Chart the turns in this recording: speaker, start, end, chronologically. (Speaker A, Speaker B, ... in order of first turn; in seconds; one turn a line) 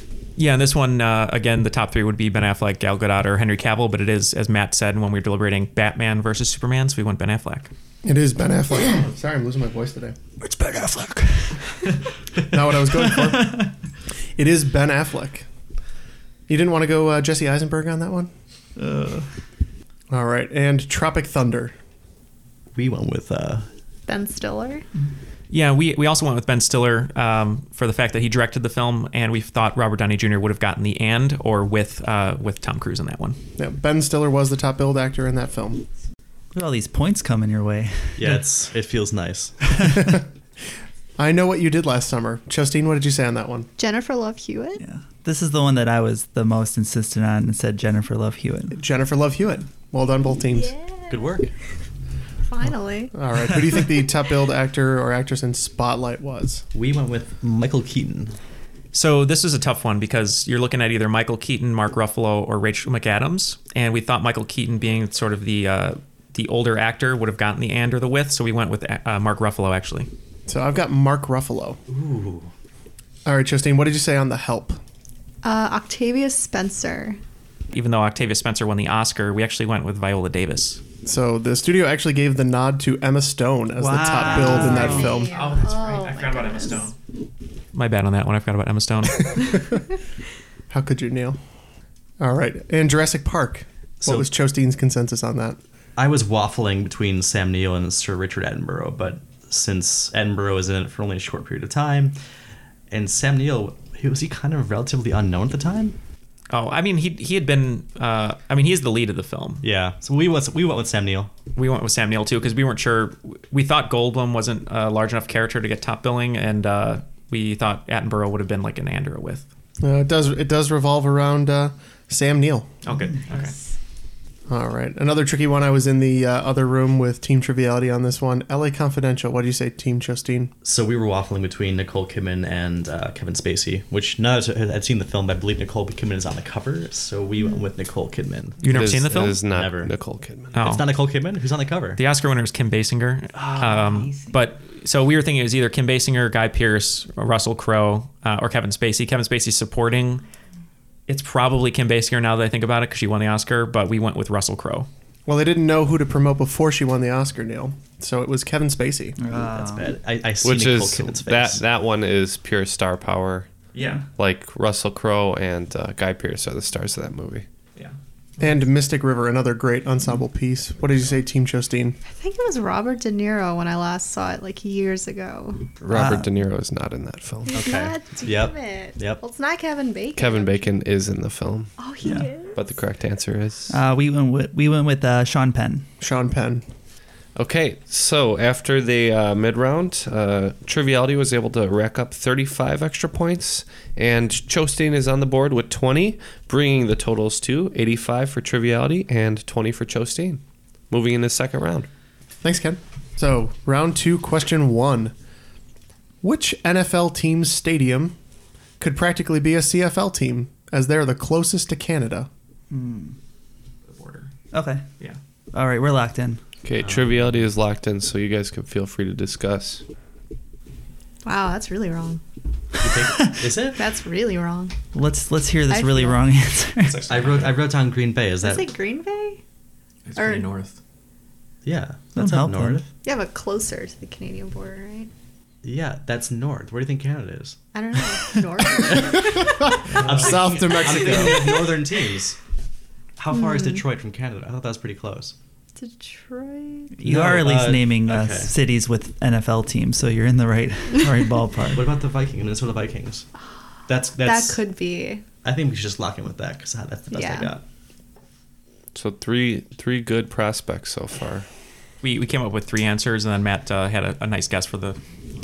Speaker A: 0.4-7.7
Speaker B: 8.0-10.2
Speaker C: 10.4-11.9
Speaker B: 12.5-13.6
Speaker C: 13.0-13.7
Speaker B: 14.3-15.4
Speaker B: 16.5-18.3
Speaker C: 18.8-19.2
Speaker B: 20.1-21.7
Speaker D: 22.8-23.7
Speaker E: 24.1-24.8
Speaker A: 25.5-33.4
Speaker B: 33.6-35.8
Speaker C: 36.5-38.4
Speaker D: 38.1-39.5
Speaker B: 40.0-40.2
Speaker B: 41.2-43.7
Speaker E: 43.8-44.8
Speaker C: 44.8-48.8
Speaker B: 48.7-50.7
Speaker E: 50.5-51.2
Speaker D: 51.1-51.5
Speaker E: 52.5-53.1
Speaker B: 53.1-56.6
Speaker D: 56.7-58.4
Speaker A: 58.9-70.1
Speaker B: 70.5-71.8
Speaker D: 71.9-72.5
Speaker B: 73.2-74.8
Speaker E: 75.4-77.2
Speaker A: 77.7-80.8
Speaker B: 81.0-85.3
Speaker C: 83.8-85.3
Speaker E: 84.2-86.9
Speaker A: 85.1-86.9
Speaker A: 87.7-89.6
Speaker B: 90.7-91.4
Speaker B: 92.2-95.6
Speaker D: 94.0-94.3
Speaker D: 96.0-102.1
Speaker D: 102.9-105.9
Speaker A: 106.5-109.6
Speaker D: 109.6-111.3
Speaker A: 111.5-119.4
Speaker B: 119.8-122.7
Speaker A: 122.8-123.5
Speaker B: 124.5-130.5
Speaker D: 130.6-138.6
Speaker E: 137.4-137.7
Speaker A: 138.6-139.4
Speaker F: 138.6-140.5
Speaker D: 139.5-139.9
Speaker A: 140.5-140.8
Speaker D: 140.5-142.0
Speaker A: 141.9-150.2
Speaker C: 143.3-144.4
Speaker A: 151.1-154.9
Speaker B: 155.2-159.2
Speaker C: 159.2-159.9
Speaker D: 159.3-161.6
Speaker F: 160.4-163.5
Speaker A: 163.7-164.0
Speaker F: 164.2-167.4
Speaker B: 168.4-172.0
Speaker E: 172.0-175.7
Speaker F: 175.8-177.5
Speaker C: 175.9-176.3
Speaker E: 177.5-180.7
Speaker D: 177.5-179.2
Speaker F: 180.2-183.8
Speaker E: 181.8-182.7
Speaker C: 182.0-182.3
Speaker C: 183.7-185.8
Speaker B: 186.0-186.6
Speaker F: 187.3-201.9
Speaker B: 202.4-205.1
Speaker B: 206.2-208.1
Speaker B: 208.8-212.3
Speaker C: 212.7-213.2
Speaker A: 213.9-214.3
Speaker C: 214.5-214.8
Speaker C: 215.5-216.4
Speaker F: 216.6-219.8
Speaker D: 216.8-217.4
Speaker E: 221.2-222.2
Speaker D: 222.8-223.8
Speaker E: 223.7-224.7
Speaker C: 224.9-227.0
Speaker E: 225.7-226.2
Speaker A: 226.8-227.6
Speaker D: 227.1-228.7
Speaker E: 228.4-229.4
Speaker A: 230.1-230.8
Speaker E: 230.2-230.4
Speaker D: 231.6-232.9
Speaker C: 232.1-232.8
Speaker E: 233.0-235.1
Speaker D: 235.6-237.6
Speaker E: 237.7-239.7
Speaker B: 239.9-241.7
Speaker D: 239.9-242.3
Speaker D: 243.2-245.3
Speaker E: 243.3-243.8
Speaker E: 245.8-247.0
Speaker C: 247.0-251.8
Speaker D: 247.0-248.5
Speaker D: 251.7-253.3
Speaker D: 253.9-254.6
Speaker E: 254.2-255.2
Speaker D: 255.4-257.6
Speaker E: 257.1-257.5
Speaker F: 258.9-261.4
Speaker A: 262.0-265.0